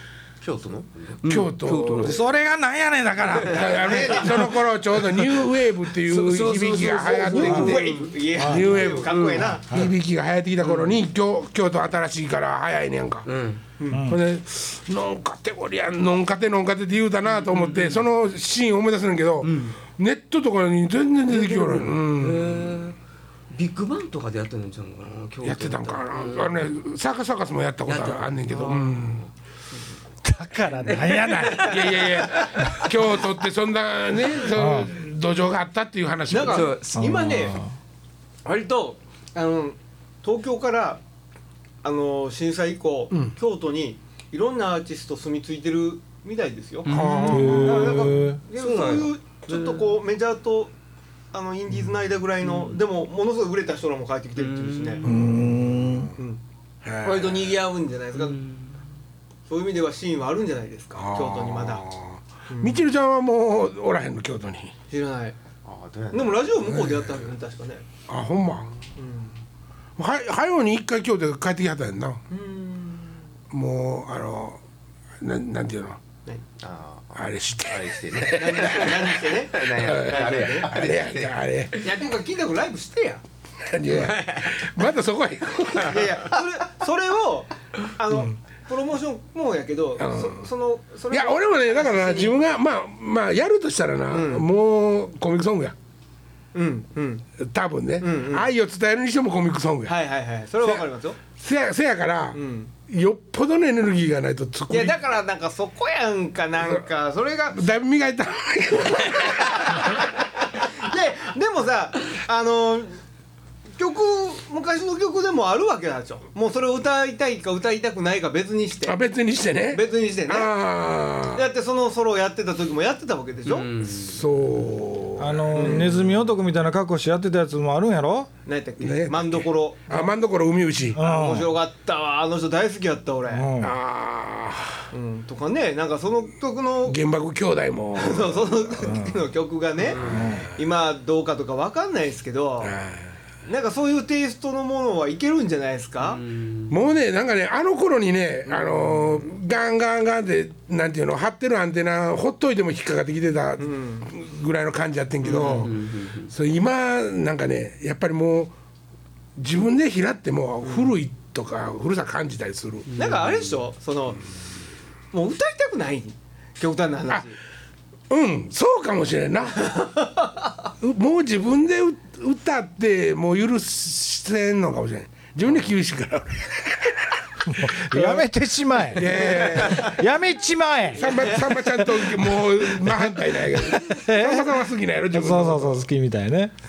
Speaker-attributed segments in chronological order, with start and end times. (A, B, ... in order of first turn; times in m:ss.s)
0:00.4-0:01.2 A
0:01.2-0:02.2 B
0:01.2-0:02.2 C
0:02.0-0:04.5 D
0:03.4-0:13.3 C
0:03.8-0:04.2 E
0:06.0-0:08.4 B
0:07.1-0:09.7 E
0:08.4-0:08.9 D
0:10.6-0:11.0 B
0:13.2-0:13.6 B
0:13.8-0:14.0 E
0:13.9-0:14.2 D
0:14.0-0:22.8 C
0:17.3-0:18.0 B
0:19.4-0:19.8 B
0:21.3-0:23.0 B
0:23.5-0:26.7 B
0:25.4-0:29.3 C
0:27.9-0:29.2 B
0:30.2-0:32.0 D
0:30.8-0:32.9 B
0:31.5-0:36.8 C
0:34.5-0:34.9 D
0:36.3-0:37.6 E
0:36.3-0:37.2 B
0:36.9-0:37.7 D
0:38.4-0:41.0 E
0:41.8-0:50.7 E
0:46.8-0:47.9 B
0:46.8-0:48.0 C
0:47.3-0:48.4 D
0:48.5-0:50.0 B
0:51.3-0:55.1 E
0:52.4-0:52.8 B
0:54.4-0:55.2 B
0:55.0-0:56.1 D
0:55.0-0:56.1 C
0:56.8-0:57.6 C
0:57.0-0:58.4 E
0:58.1-0:58.8 B
0:59.5-1:01.9 E
1:00.9-1:04.8 C
1:02.5-1:02.8 E
1:04.9-1:05.4 E
1:05.6-1:06.4 A
1:06.1-1:07.8 E
1:08.1-1:08.7 C
1:09.0-1:09.4 E
1:10.0-1:12.2 C
1:12.3-1:13.2 E
1:13.5-1:14.6 C
1:15.2-1:16.0 C
1:16.6-1:21.3 A
1:17.1-1:22.0 C
1:18.4-1:20.7 E
1:21.8-1:23.2 E
1:23.6-1:26.3 C
1:23.9-1:24.4 E
1:25.8-1:32.4 E
1:28.1-1:28.4 C
1:30.0-1:30.4 C
1:31.1-1:35.7 C
1:34.1-1:34.4 E
1:36.5-1:37.3 E
1:37.4-1:40.0 C
1:38.0-1:38.5 E
1:39.9-1:41.2 E
1:40.6-1:45.0 C
1:42.3-1:42.7 E
1:44.7-1:47.6 E
1:47.5-1:50.1 C
1:49.2-1:53.0 E
1:53.8-1:59.0 E
1:58.8-2:01.4 C
1:59.7-2:00.5 E
2:01.3-2:03.7 E
2:03.4-2:04.2 B
2:04.0-2:06.1 C
2:05.2-2:08.3 D
2:05.5-2:06.0 E
2:08.4-2:10.0 E
2:08.8-2:11.0 C
2:10.9-2:11.6 D
2:11.0-2:13.5 E
2:13.3-2:13.7 D
2:13.6-2:14.9 C
2:14.9-2:17.0 E
2:16.8-2:19.0 C
2:18.0-2:22.8 E
2:20.1-2:20.5 D
2:22.6-2:23.1 C
2:23.4-2:26.2 E
2:26.1-2:26.8 B
2:26.7-2:35.8 C
2:33.6-2:34.1 E
2:35.2-2:35.7 E
2:35.2-2:36.3 B
2:36.3-2:38.5 C
2:39.4-2:42.9 C
2:40.6-2:40.9 E
2:42.9-2:43.6 B
2:43.0-2:44.2 E
2:45.1-2:47.4 E
2:48.1-2:49.8 C
2:49.6-2:50.5 E
2:50.8-2:58.2 C
2:57.5-3:04.6 D
2:58.9-3:00.0 C
2:58.9-3:00.0 E
3:00.9-3:01.5 E
3:01.0-3:05.8 C
3:05.1-3:06.5 D